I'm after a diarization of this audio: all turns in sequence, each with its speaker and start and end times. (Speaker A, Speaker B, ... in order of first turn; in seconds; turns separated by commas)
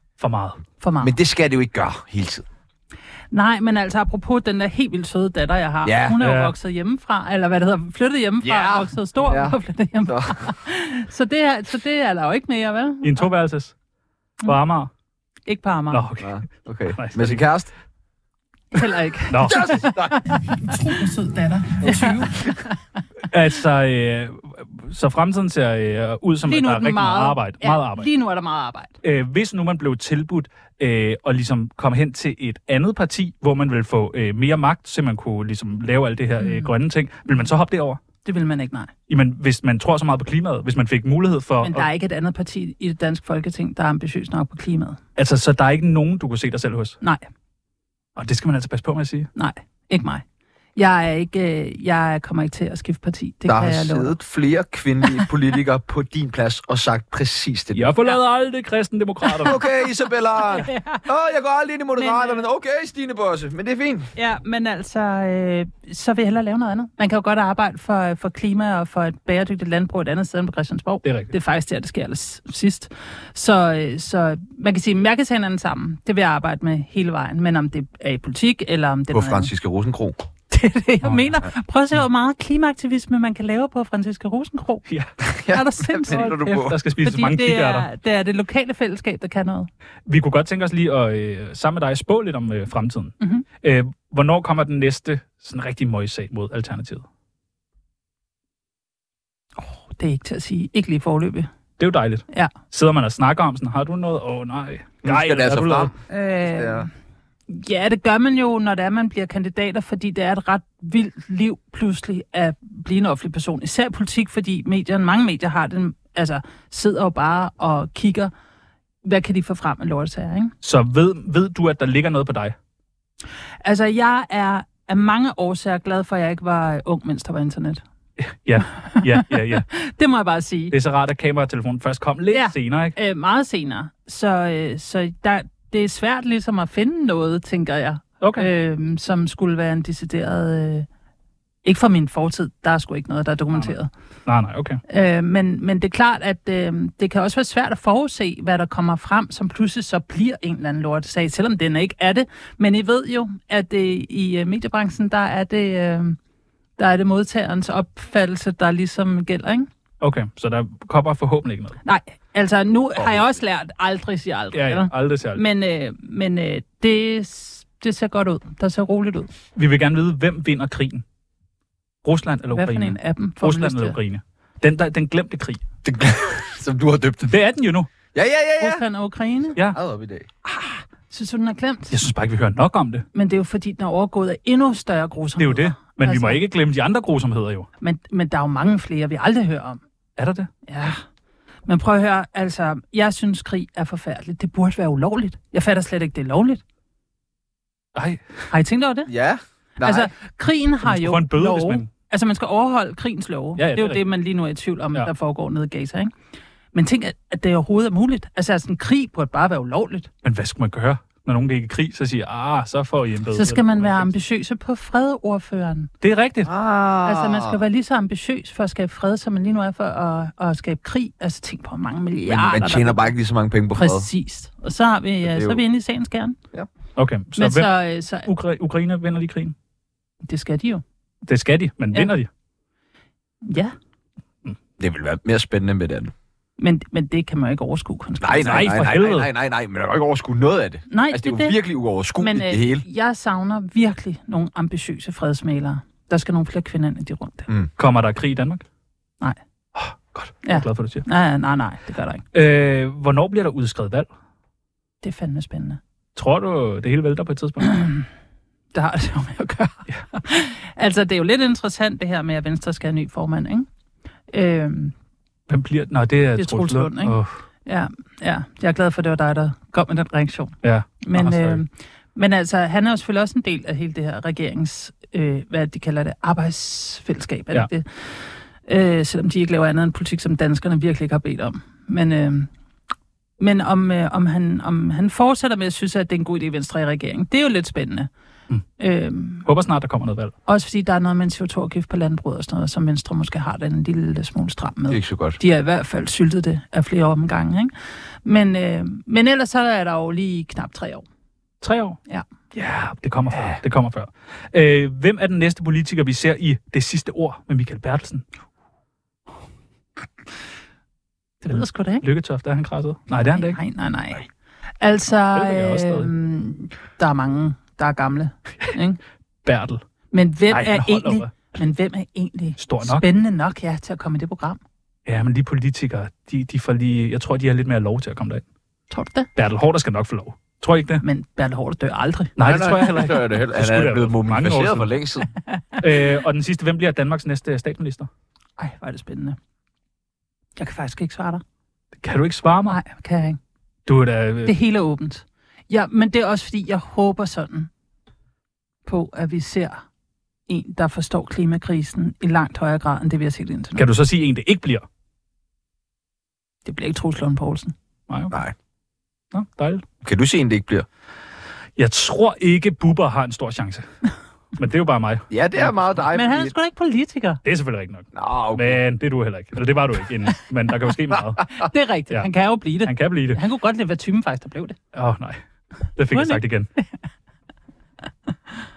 Speaker A: 0.2-0.6, Speaker B: 0.8-1.1, Speaker C: 1.0-2.4, Speaker B: 3.3-13.3, Speaker C: 5.8-6.2, Speaker A: 6.2-6.5, Speaker C: 8.4-10.5, Speaker A: 13.0-13.7, Speaker A: 14.4-14.9, Speaker B: 15.5-16.0, Speaker A: 15.9-16.4, Speaker C: 16.2-17.7, Speaker A: 16.9-17.4, Speaker B: 18.7-22.8, Speaker A: 19.3-19.9, Speaker C: 19.4-20.4, Speaker C: 22.2-22.5, Speaker A: 23.3-28.1, Speaker B: 26.4-28.9, Speaker A: 29.0-38.0, Speaker B: 36.4-36.7, Speaker B: 38.2-38.9, Speaker A: 39.1-41.9, Speaker B: 41.6-45.0, Speaker A: 45.2-47.0, Speaker B: 47.0-47.3, Speaker A: 48.1-49.3, Speaker B: 49.3-50.2, Speaker B: 50.8-54.2, Speaker C: 53.5-58.0, Speaker A: 57.7-59.6, Speaker B: 59.2-59.5, Speaker C: 59.4-64.1, Speaker B: 60.4-61.0, Speaker B: 62.0-62.4, Speaker B: 64.2-79.5, Speaker A: 71.0-71.3, Speaker C: 79.1-80.2, Speaker B: 80.5-84.8, Speaker A: 84.9-85.1, Speaker C: 85.2-86.8, Speaker B: 85.5-86.5, Speaker A: 86.1-87.9, Speaker B: 87.0-89.7, Speaker A: 90.1-97.0, Speaker B: 93.2-93.5, Speaker B: 99.6-101.5, Speaker A: 101.8-105.9, Speaker C: 105.0-106.9, Speaker B: 106.1-106.9, Speaker B: 107.5-118.3, Speaker B: 119.0-120.5, Speaker A: 120.6-122.5, Speaker B: 123.6-127.8, Speaker A: 128.2-129.7, Speaker B: 128.6-130.7, Speaker A: 130.7-132.9, Speaker B: 132.3-140.9, Speaker A: 138.2-138.5, Speaker B: 141.6-143.9, Speaker A: 144.2-144.8, Speaker B: 144.9-156.2, Speaker B: 156.8-159.7, Speaker A: 160.0-161.8, Speaker B: 161.8-169.3, Speaker C: 163.0-163.3, Speaker A: 164.5-165.4, Speaker A: 169.6-171.0, Speaker A: 172.0-175.6, Speaker B: 172.5-174.0, Speaker C: 175.8-177.3, Speaker A: 177.2-177.9, Speaker C: 178.1-178.8, Speaker B: 178.6-179.6, Speaker C: 179.6-180.3, Speaker B: 180.4-182.0, Speaker A: 181.9-183.1, Speaker B: 183.1-186.4, Speaker A: 185.4-187.7, Speaker B: 187.8-189.8, Speaker A: 190.2-190.5, Speaker B: 190.7-191.0, Speaker B: 191.7-196.6, Speaker A: 197.9-198.2, Speaker B: 198.5-199.1, Speaker C: 199.1-200.1, Speaker B: 199.8-206.1, Speaker A: 200.8-201.9, Speaker A: 203.6-204.0, Speaker B: 206.7-210.1, Speaker A: 210.2-214.1, Speaker B: 213.3-215.9, Speaker A: 216.0-216.5, Speaker C: 216.4-217.6, Speaker B: 217.0-223.1, Speaker C: 222.3-224.1, Speaker B: 223.7-226.4, Speaker C: 225.2-225.6, Speaker A: 226.9-229.5, Speaker B: 227.3-228.3, Speaker B: 230.2-230.8, Speaker A: 231.3-232.3, Speaker B: 233.4-233.7, Speaker C: 234.8-236.1, Speaker B: 236.6-238.8, Speaker C: 238.2-242.8, Speaker A: 238.4-239.3, Speaker B: 240.9-241.6, Speaker B: 242.2-247.5, Speaker A: 247.8-248.6, Speaker A: 249.8-251.0, Speaker B: 250.4-252.2, Speaker A: 252.3-254.1, Speaker B: 255.0-255.8, Speaker A: 256.1-257.9, Speaker B: 257.6-258.0, Speaker B: 258.7-263.7, Speaker B: 264.3-264.9, Speaker A: 265.5-267.4, Speaker B: 266.4-282.5, Speaker A: 270.6-271.6, Speaker B: 283.4-288.1, Speaker B: 288.8-289.5, Speaker A: 289.4-290.3, Speaker B: 290.4-297.7, Speaker C: 294.9-295.4, Speaker B: 298.2-301.0, Speaker A: 301.6-302.0, Speaker A: 302.5-308.2, Speaker B: 311.4-312.1, Speaker A: 311.5-313.6, Speaker B: 313.2-314.3, Speaker B: 314.8-319.0, Speaker A: 315.3-316.1, Speaker A: 319.4-319.8, Speaker B: 320.1-324.6, Speaker A: 320.5-321.3, Speaker A: 322.6-323.0, Speaker A: 325.1-328.4, Speaker B: 328.9-329.3, Speaker A: 329.4-331.0, Speaker B: 331.0-332.3, Speaker A: 332.4-334.9, Speaker C: 332.4-335.2, Speaker B: 335.5-335.8, Speaker A: 335.8-338.1, Speaker B: 338.6-339.4, Speaker B: 340.6-341.4, Speaker A: 342.0-342.8, Speaker B: 342.7-343.4, Speaker A: 343.9-344.5, Speaker B: 344.4-347.7, Speaker B: 348.9-349.8, Speaker B: 350.5-353.9, Speaker A: 353.8-354.8, Speaker B: 356.6-357.7, Speaker A: 358.1-358.3, Speaker A: 359.3-359.8, Speaker C: 360.0-360.9, Speaker A: 361.8-363.8, Speaker A: 364.6-365.9, Speaker C: 365.3-366.5, Speaker B: 366.1-367.4, Speaker A: 367.4-371.5, Speaker C: 368.1-368.8, Speaker B: 371.5-374.8, Speaker A: 372.8-373.4, Speaker A: 374.9-375.4, Speaker A: 375.9-376.7, Speaker B: 376.1-376.8